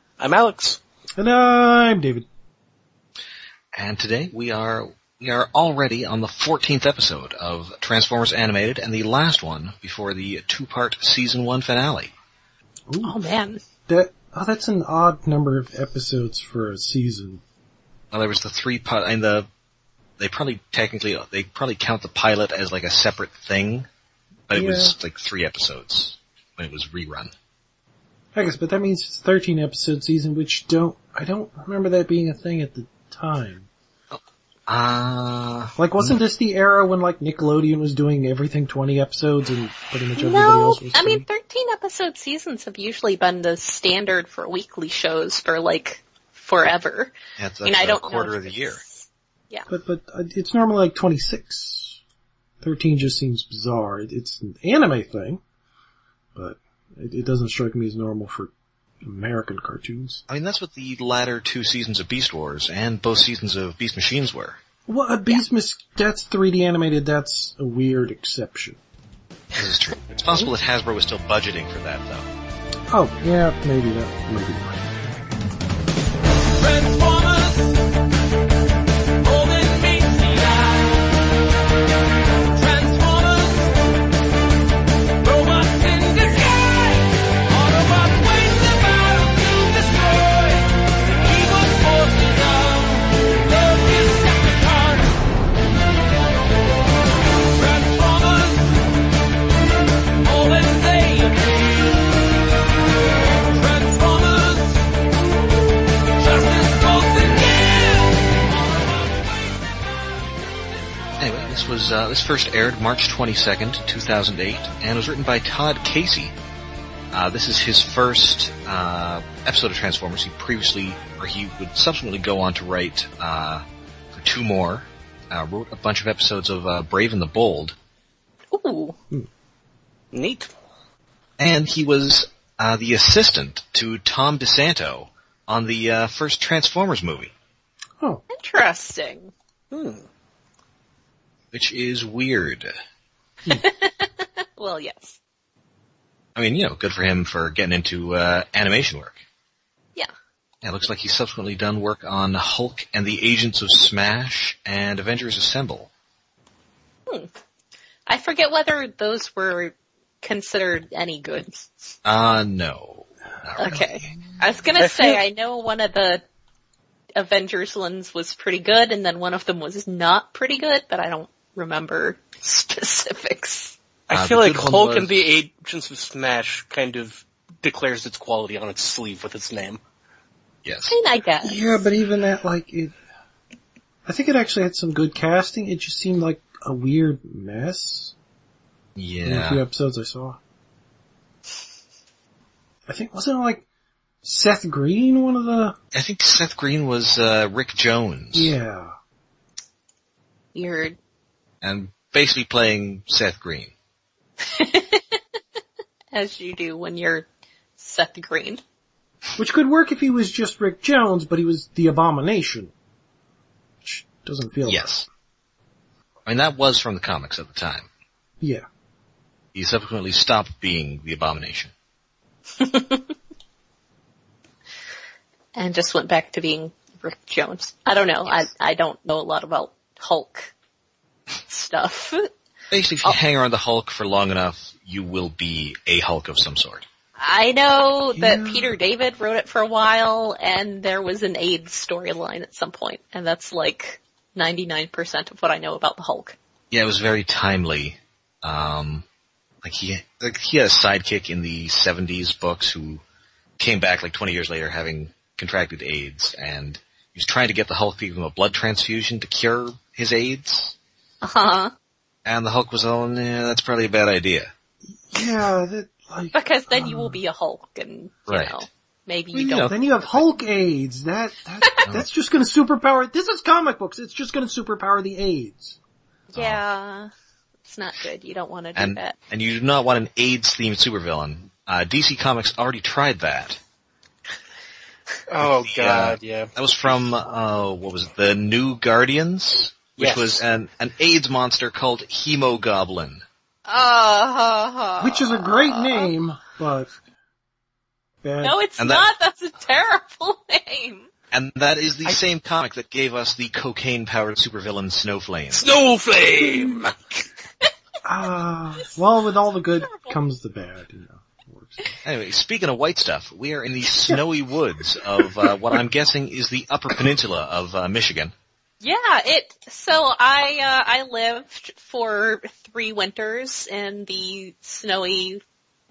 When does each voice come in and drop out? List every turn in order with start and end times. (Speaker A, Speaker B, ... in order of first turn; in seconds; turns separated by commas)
Speaker A: 0.2-0.8, Speaker B: 1.2-2.3, Speaker C: 3.7-12.1, Speaker B: 12.9-13.2, Speaker D: 13.0-13.6, Speaker B: 13.9-17.4, Speaker C: 18.1-19.5, Speaker C: 20.2-23.9, Speaker C: 24.5-27.3, Speaker B: 24.5-24.9, Speaker B: 28.4-33.7, Speaker C: 34.1-36.2, Speaker B: 35.8-41.3, Speaker D: 40.2-49.7, Speaker C: 47.4-48.8, Speaker B: 49.7-52.0, Speaker B: 52.6-55.4, Speaker B: 56.4-60.2, Speaker C: 60.3-64.6, Speaker B: 64.9-68.8, Speaker C: 69.5-72.3, Speaker B: 72.9-75.0, Speaker E: 76.6-77.8, Speaker E: 79.2-81.1, Speaker E: 82.5-83.8, Speaker E: 85.2-95.1, Speaker E: 97.5-98.8, Speaker E: 100.2-102.0, Speaker E: 103.5-104.8, Speaker E: 106.2-108.3, Speaker C: 111.2-116.3, Speaker C: 117.1-127.8, Speaker D: 128.5-129.0, Speaker A: 130.1-130.5, Speaker C: 131.4-137.3, Speaker D: 138.3-139.3, Speaker A: 139.7-140.1, Speaker C: 141.5-142.7, Speaker D: 143.5-145.2, Speaker C: 146.4-149.2, Speaker C: 150.6-155.9, Speaker D: 158.1-161.9, Speaker C: 162.1-163.8, Speaker D: 163.6-166.2, Speaker A: 164.8-165.2, Speaker D: 167.2-173.8, Speaker A: 174.1-179.8, Speaker C: 174.1-175.3, Speaker C: 180.7-181.0, Speaker D: 180.9-181.8, Speaker B: 181.4-182.9, Speaker B: 184.1-188.1, Speaker C: 189.0-189.6, Speaker B: 189.2-190.4, Speaker B: 192.9-193.7, Speaker B: 194.2-195.8, Speaker C: 195.9-198.5, Speaker B: 198.3-198.9, Speaker D: 200.6-201.0, Speaker C: 201.6-203.7, Speaker D: 204.4-205.0, Speaker D: 206.1-207.3, Speaker D: 207.8-208.6, Speaker B: 209.4-212.7, Speaker B: 213.8-215.0, Speaker C: 214.7-215.1, Speaker C: 216.3-217.9, Speaker C: 219.6-221.7, Speaker D: 222.6-223.1, Speaker D: 225.6-230.5, Speaker D: 231.5-232.3, Speaker C: 232.7-236.9, Speaker D: 237.2-246.4, Speaker B: 238.2-238.7, Speaker C: 246.7-249.1, Speaker C: 249.6-253.0, Speaker C: 253.6-260.8, Speaker D: 261.2-261.7, Speaker C: 262.2-264.5, Speaker B: 265.1-267.2, Speaker D: 266.3-269.9, Speaker C: 268.3-268.6, Speaker C: 269.3-270.2, Speaker B: 269.6-275.8, Speaker D: 276.3-277.1, Speaker C: 276.4-276.6, Speaker D: 277.6-279.1, Speaker C: 278.8-283.6, Speaker A: 285.3-286.5, Speaker C: 285.4-293.2, Speaker A: 290.0-290.4, Speaker D: 293.7-296.1, Speaker B: 295.0-296.9, Speaker B: 298.2-298.6, Speaker D: 298.4-301.1, Speaker C: 298.8-299.0, Speaker C: 301.3-305.7, Speaker A: 305.5-306.9, Speaker B: 308.0-311.8, Speaker D: 309.8-310.1, Speaker C: 312.0-318.3, Speaker D: 318.8-325.4